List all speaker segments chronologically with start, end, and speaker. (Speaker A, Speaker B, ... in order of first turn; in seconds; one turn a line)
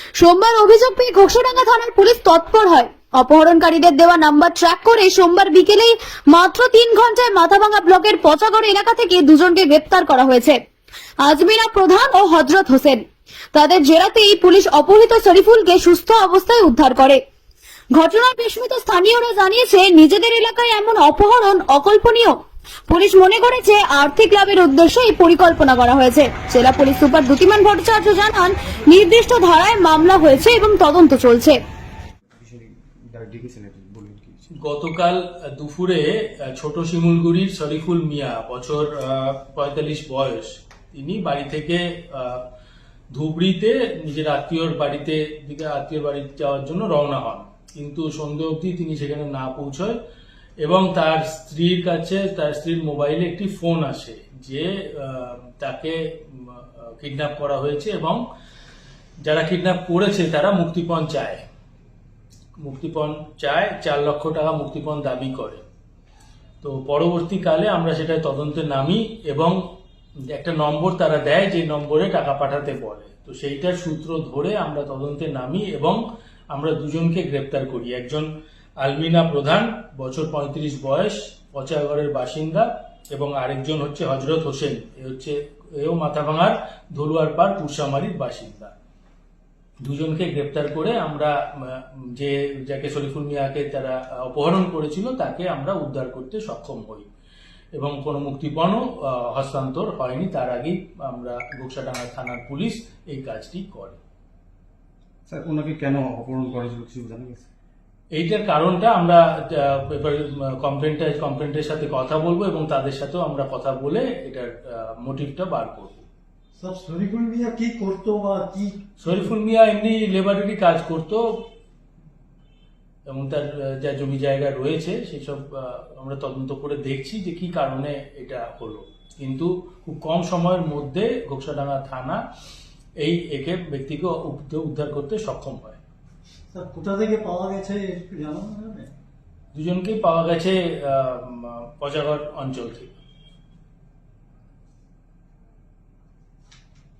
Speaker A: 0.1-10.6
Speaker A: 11.2-17.2
Speaker A: 17.9-22.4
Speaker A: 22.9-31.6
Speaker B: 32.4-34.5
Speaker C: 34.6-42.4
Speaker C: 43.1-50.0
Speaker C: 50.6-58.2
Speaker C: 59.2-61.4
Speaker C: 62.6-65.6
Speaker C: 66.6-69.6
Speaker C: 70.3-76.0
Speaker C: 76.5-78.3
Speaker C: 78.8-88.7
Speaker C: 89.8-97.1
Speaker C: 97.8-104.0
Speaker B: 105.3-107.5
Speaker C: 108.1-116.0
Speaker D: 116.6-119.3
Speaker C: 119.0-121.2
Speaker C: 123.1-132.2
Speaker C: 133.0-135.8
Speaker D: 136.5-138.9
Speaker C: 139.5-142.9